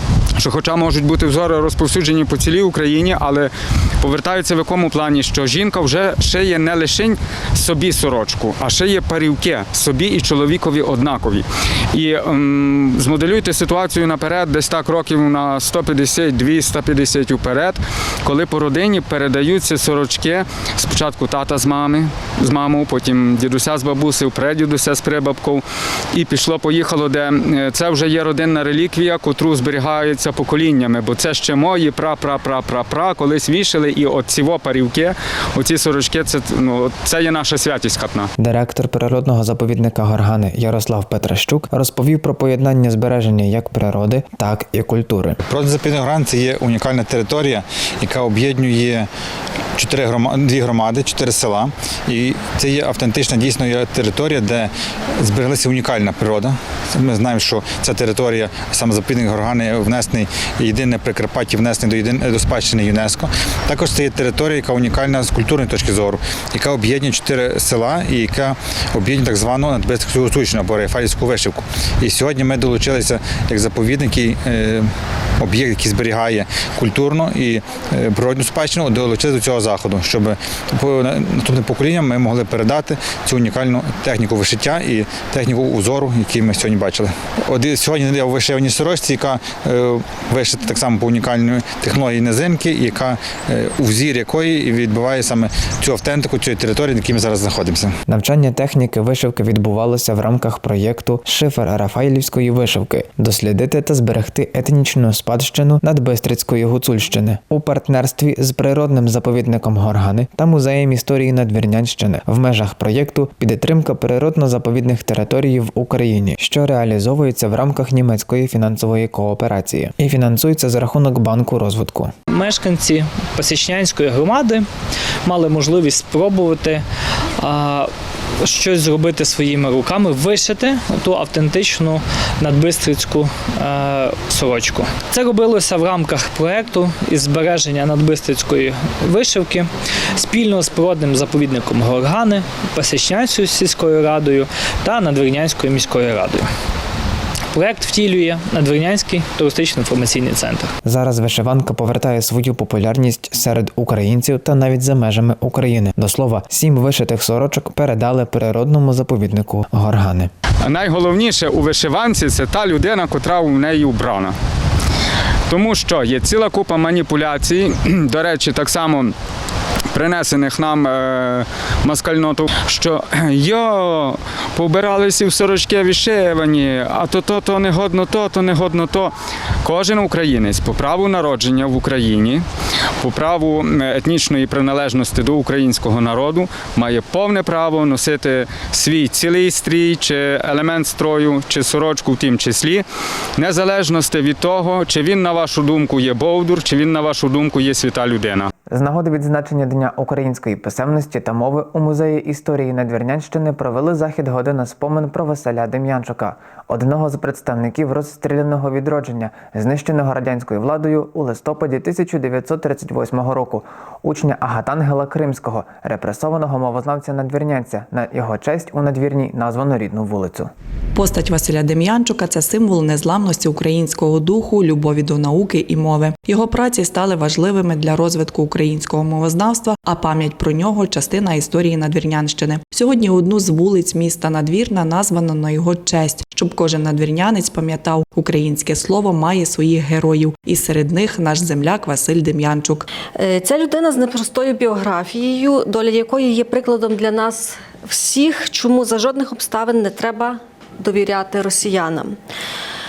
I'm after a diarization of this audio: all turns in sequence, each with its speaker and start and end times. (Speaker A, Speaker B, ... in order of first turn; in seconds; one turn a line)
Speaker A: 0.4-38.3
Speaker B: 38.4-45.4
Speaker C: 45.5-49.1
Speaker C: 49.8-97.9
Speaker B: 98.1-122.1
Speaker D: 122.3-124.7
Speaker D: 125.2-126.8
Speaker D: 127.4-127.9
Speaker D: 128.4-146.5
Speaker D: 147.5-150.7
Speaker B: 150.8-160.3
Speaker A: 160.6-164.3
Speaker A: 165.5-169.1
Speaker A: 169.9-182.4
Speaker A: 183.0-192.8
Speaker A: 193.4-198.5
Speaker B: 198.7-220.5
Speaker E: 220.9-242.8
Speaker F: 243.2-252.2